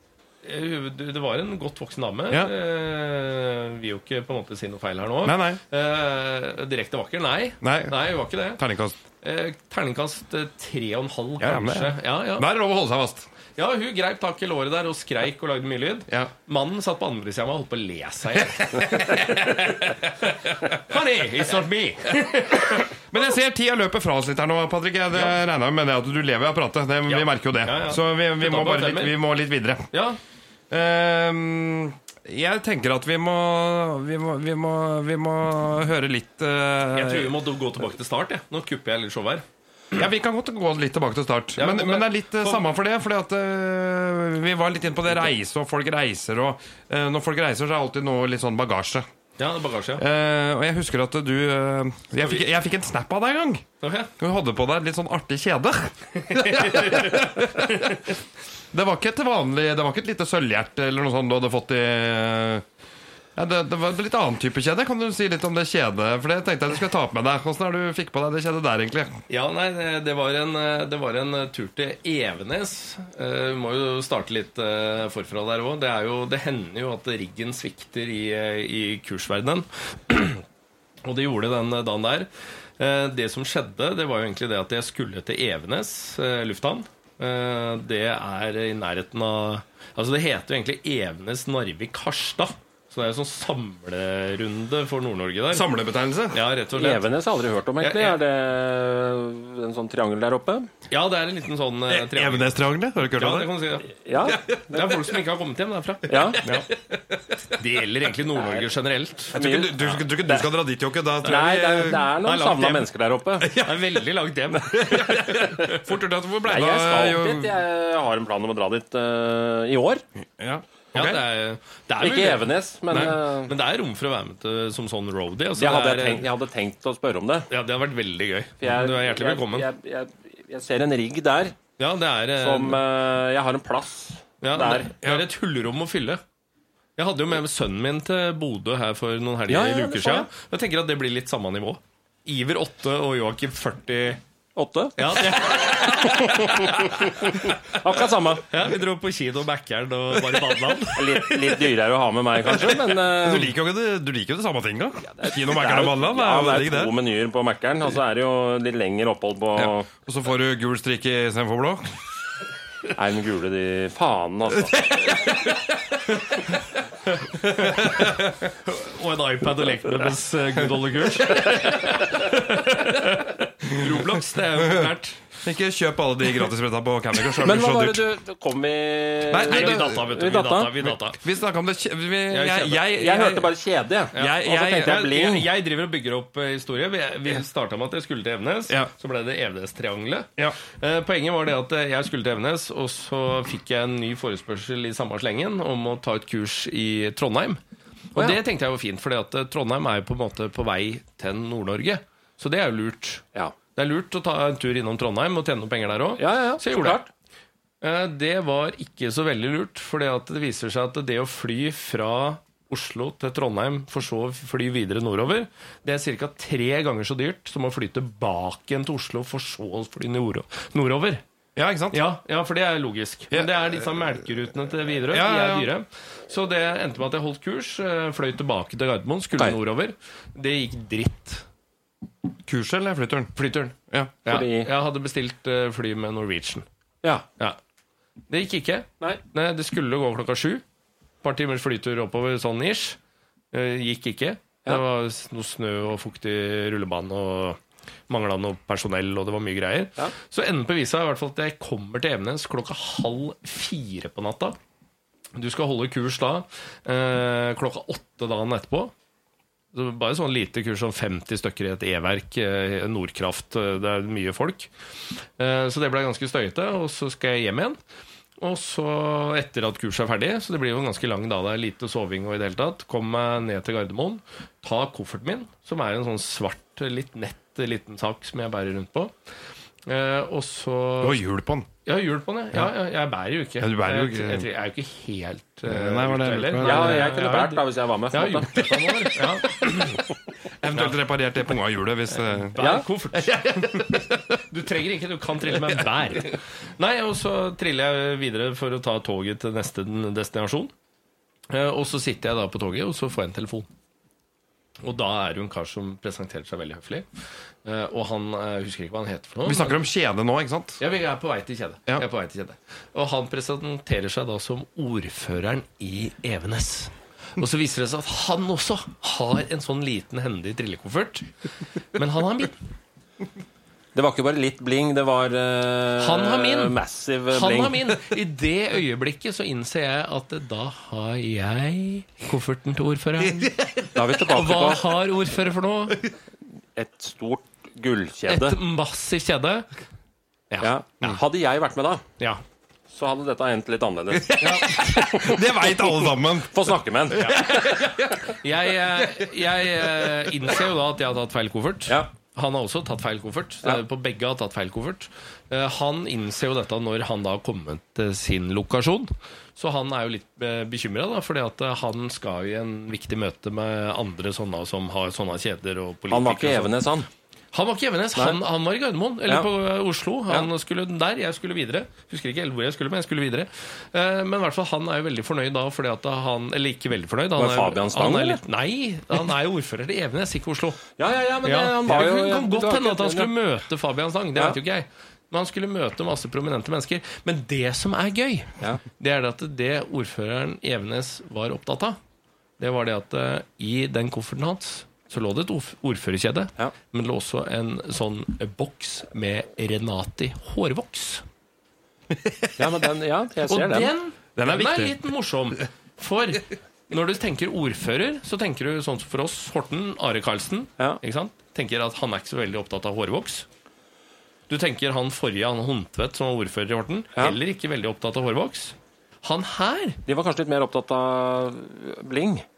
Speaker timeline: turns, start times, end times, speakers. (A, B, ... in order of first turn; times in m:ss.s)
0:00.4-0:08.6 A
0:05.2-0:05.6 B
0:07.6-0:09.0 B
0:09.2-0:12.5 A
0:11.4-0:13.3 B
0:13.6-0:22.9 A
0:18.3-0:20.8 B
0:22.7-0:29.9 B
0:27.1-0:29.2 A
0:29.9-0:30.2 A
0:30.7-0:37.4 B
0:36.9-0:39.4 A
0:39.9-0:49.0 B
0:41.6-0:42.6 A
0:49.4-0:50.0 A
0:50.0-0:53.6 B
0:53.8-0:54.1 A
0:54.2-0:58.1 B
0:56.1-0:58.1 A
0:58.7-1:02.6 B
1:03.4-1:09.2 B
1:09.3-1:20.4 A
1:21.0-1:35.7 A
1:35.5-1:36.4 B
1:36.3-1:37.1 A
1:36.7-1:40.7 C
1:37.8-1:38.2 A
1:40.9-1:46.7 A
1:41.9-1:43.5 B
1:44.0-1:44.9 C
1:44.3-1:45.0 B
1:46.1-1:46.4 C
1:46.3-1:47.4 B
1:47.5-1:49.4 A
1:49.3-1:50.5 C
1:49.3-1:52.1 B
1:51.2-1:53.6 C
1:52.2-1:52.8 A
1:53.4-1:53.9 B
1:53.6-1:55.8 A
1:54.7-1:57.6 B
1:56.4-2:00.0 C
2:00.4-2:01.2 B
2:00.9-2:06.3 A
2:02.0-2:03.5 C
2:02.9-2:03.2 B
2:05.6-2:07.5 C
2:07.5-2:09.7 A
2:08.6-2:11.6 C
2:11.8-2:12.8 A
2:12.4-2:14.9 C
2:14.4-2:16.2 A
2:17.0-2:24.2 A
2:19.5-2:20.3 C
2:24.6-2:28.5 C
2:25.0-2:27.5 A
2:28.5-2:31.7 A
2:31.0-2:33.5 C
2:32.5-2:36.9 B
2:35.2-2:39.9 C
2:39.6-2:42.0 B
2:42.9-2:45.3 C
2:44.6-2:45.5 B
2:46.2-2:46.4 B
2:46.2-2:46.4 A
2:47.0-2:55.3 A
2:47.3-2:48.5 B
2:53.7-2:54.1 B
2:54.6-2:58.0 B
2:57.4-3:00.8 C
2:59.3-3:00.0 B
2:59.5-3:01.2 A
3:00.8-3:03.5 B
3:02.3-3:02.8 A
3:02.8-3:05.5 C
3:04.1-3:05.2 B
3:04.1-3:17.6 A
3:18.1-3:23.2 A
3:23.8-3:27.0 A
3:26.2-3:27.1 C
3:27.8-3:41.2 A
3:41.6-3:42.0 B
3:41.9-3:51.4 A
3:43.3-3:43.6 B
3:45.1-3:45.7 B
3:52.4-3:53.3 B
3:53.3-3:56.6 A
3:54.3-3:54.7 C
3:58.3-4:00.6 A
4:01.2-4:03.0 A
4:03.5-4:14.6 A
4:15.4-4:18.9 A
4:19.7-4:27.8 A
4:28.4-4:39.1 A
4:39.8-4:41.2 A
4:41.0-4:41.7 B
4:41.8-4:50.1 A
4:43.6-4:44.5 B
4:45.7-4:47.1 B
4:46.6-4:49.1 C
4:50.4-4:54.1 B
4:52.3-5:00.7 A
4:52.6-4:52.8 C
5:01.5-5:03.7 A
5:04.8-5:09.8 A
5:09.4-5:10.8 B
5:10.8-5:22.6 A
5:23.9-5:28.0 C
5:26.0-5:26.8 A
5:27.3-5:33.5 A
5:33.2-5:34.1 B
5:33.9-5:34.9 C
5:34.3-5:36.0 A
5:36.8-5:38.6 C
5:38.3-5:39.7 A
5:40.6-5:42.0 C
5:42.9-5:48.4 C
5:44.3-5:48.2 B
5:44.4-5:44.7 A
5:47.2-6:06.7 A
5:49.0-5:50.3 B
6:06.1-6:07.1 C
6:07.5-6:20.8 A
6:17.4-6:18.4 C
6:21.0-6:23.3 C
6:21.4-6:32.0 A
6:32.6-6:41.2 A
6:42.1-6:42.8 B
6:42.6-6:43.9 C
6:43.5-6:53.5 A
6:44.4-6:45.0 B
6:54.5-7:00.0 A
7:00.0-7:02.4 C